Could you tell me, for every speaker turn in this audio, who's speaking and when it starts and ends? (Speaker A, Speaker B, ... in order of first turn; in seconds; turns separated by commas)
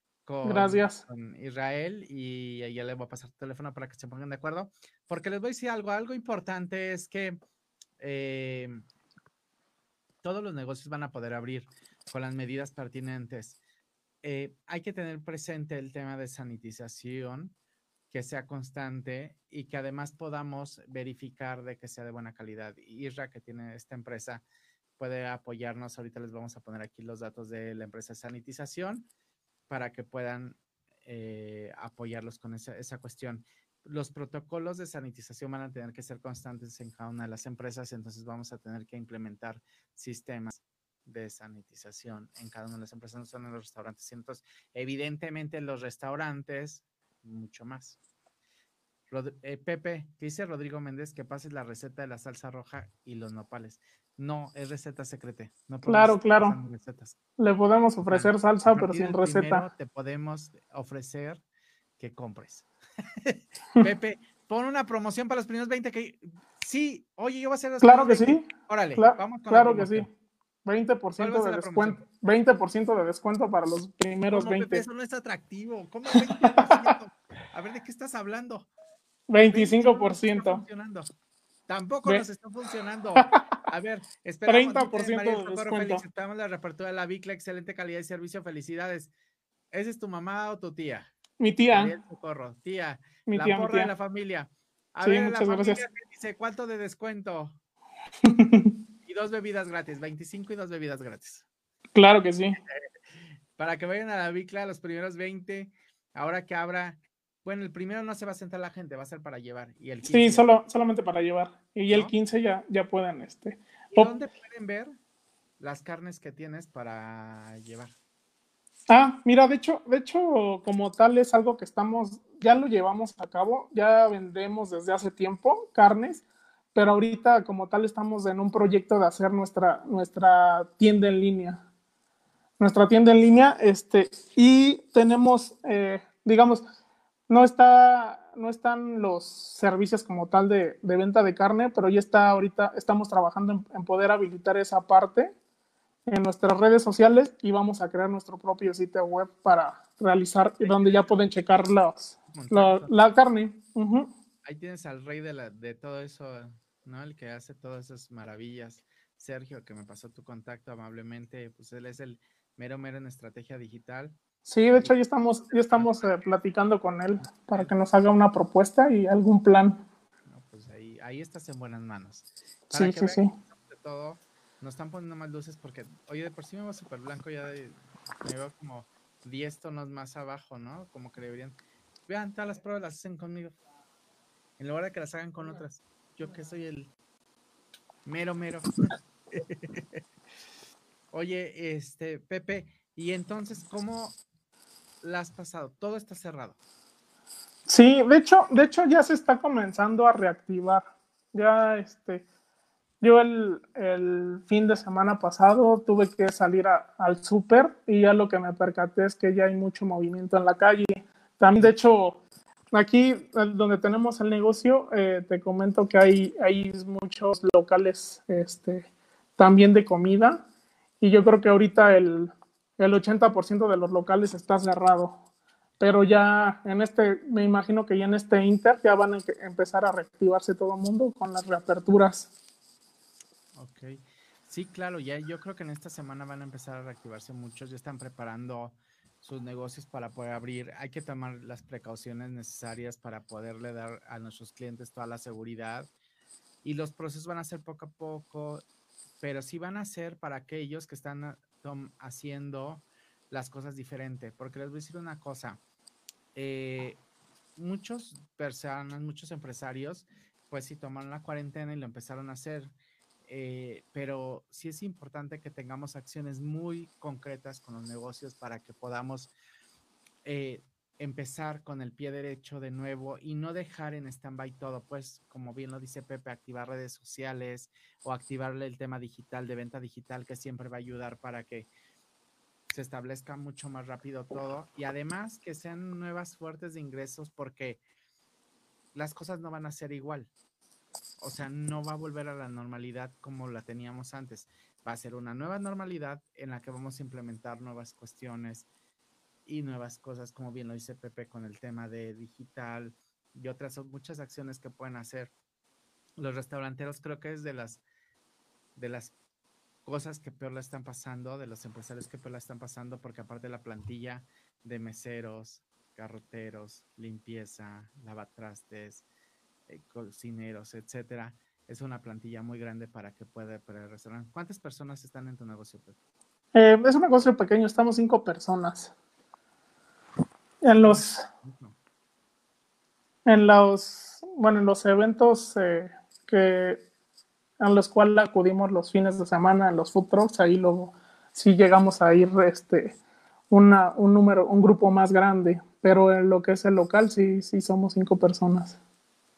Speaker A: 0.3-7.4, Speaker B: 0.4-1.0, Speaker A: 8.0-8.8, Speaker A: 10.2-13.6, Speaker A: 14.2-17.5, Speaker A: 18.1-24.4, Speaker A: 25.0-29.1, Speaker A: 29.7-48.0, Speaker A: 49.1-57.2, Speaker B: 55.9-56.6, Speaker B: 57.4-59.7, Speaker A: 58.1-61.4, Speaker A: 62.0-62.7, Speaker A: 63.2-70.1, Speaker B: 67.8-70.1, Speaker B: 70.7-74.8, Speaker A: 71.2-72.0, Speaker A: 74.3-78.7, Speaker B: 76.4-76.8, Speaker B: 79.3-80.6, Speaker A: 79.5-81.1, Speaker A: 81.7-89.1, Speaker B: 84.5-86.0, Speaker A: 89.7-91.1, Speaker B: 91.4-91.9, Speaker A: 91.7-97.6, Speaker B: 93.3-93.9, Speaker B: 95.0-95.8, Speaker B: 98.2-98.7, Speaker A: 99.0-101.5, Speaker B: 102.0-102.6, Speaker A: 103.6-110.5, Speaker B: 110.1-114.1, Speaker A: 111.9-112.1, Speaker A: 113.9-115.0, Speaker A: 115.6-117.9, Speaker B: 118.9-131.6, Speaker B: 132.6-136.6, Speaker B: 137.3-145.3, Speaker B: 146.1-154.1, Speaker A: 150.6-151.2, Speaker A: 152.3-153.0, Speaker A: 154.4-164.2, Speaker B: 164.5-169.8, Speaker A: 165.5-166.3, Speaker A: 167.3-167.7, Speaker A: 170.3-181.6, Speaker B: 172.7-173.3, Speaker A: 182.1-183.6, Speaker A: 184.6-186.9, Speaker A: 188.1-190.0, Speaker A: 191.1-194.2, Speaker A: 195.0-196.6, Speaker B: 197.7-202.3, Speaker B: 203.0-212.2, Speaker B: 212.7-220.4, Speaker B: 221.0-225.2, Speaker B: 225.8-232.3, Speaker A: 233.6-245.9, Speaker A: 246.6-248.6, Speaker A: 249.2-255.6, Speaker A: 256.4-257.0, Speaker A: 257.6-262.7, Speaker A: 263.2-269.3, Speaker A: 270.2-281.7, Speaker A: 282.7-287.8, Speaker A: 288.9-290.3, Speaker A: 291.2-298.7, Speaker A: 299.5-305.3, Speaker A: 306.2-307.8, Speaker A: 308.8-309.1, Speaker A: 309.9-319.1, Speaker A: 319.7-326.0, Speaker B: 326.5-328.9, Speaker B: 330.6-331.2, Speaker A: 330.8-331.8, Speaker B: 333.3-336.8, Speaker B: 337.6-343.0, Speaker B: 343.5-348.8